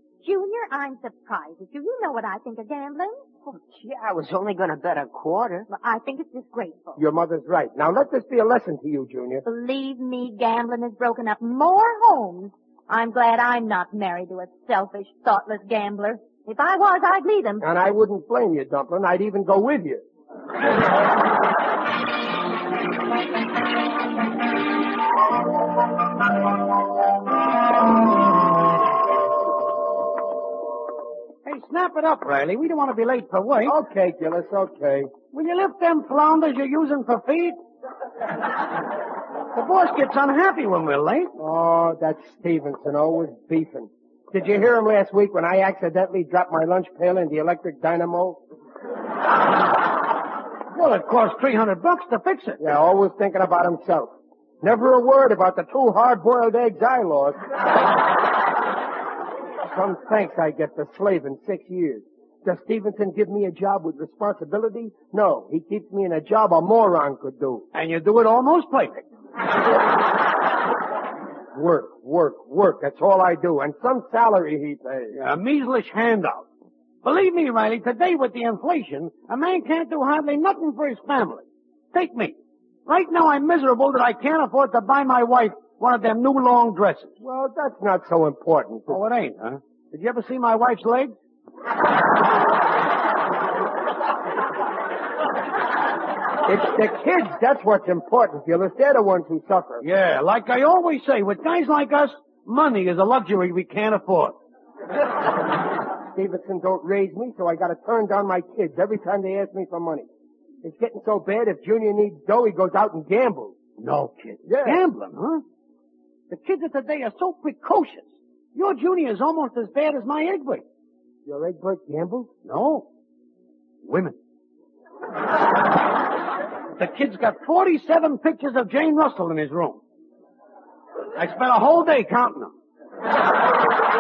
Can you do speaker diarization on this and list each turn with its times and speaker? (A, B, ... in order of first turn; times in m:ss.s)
0:00.2-0:03.2 A
0:03.5-0:05.7 B
0:05.7-0:07.0 A
0:07.0-0:09.4 C
0:09.4-0:17.7 A
0:17.6-0:20.0 C
0:31.4-0:33.8 D
0:33.6-0:35.2 C
0:35.3-0:37.6 D
0:39.5-0:41.3 D
0:41.4-0:48.4 C
0:50.7-0:52.7 D
0:52.6-0:57.4 C
0:59.7-1:07.7 C
1:07.7-1:09.0 D
1:11.5-1:15.2 C
1:15.1-1:16.5 D
1:17.0-1:27.1 D
1:27.2-1:29.0 C
1:28.9-1:31.1 D
1:36.4-1:39.8 C
1:39.8-1:44.4 D
1:46.1-1:50.1 C
1:50.6-1:53.6 C
1:53.8-1:55.4 D
1:54.5-1:54.8 C
1:56.3-2:00.6 D
2:01.3-2:02.3 C
2:02.4-2:02.9 D
2:03.8-2:04.2 D
2:06.8-2:09.8 D
2:11.2-2:12.5 D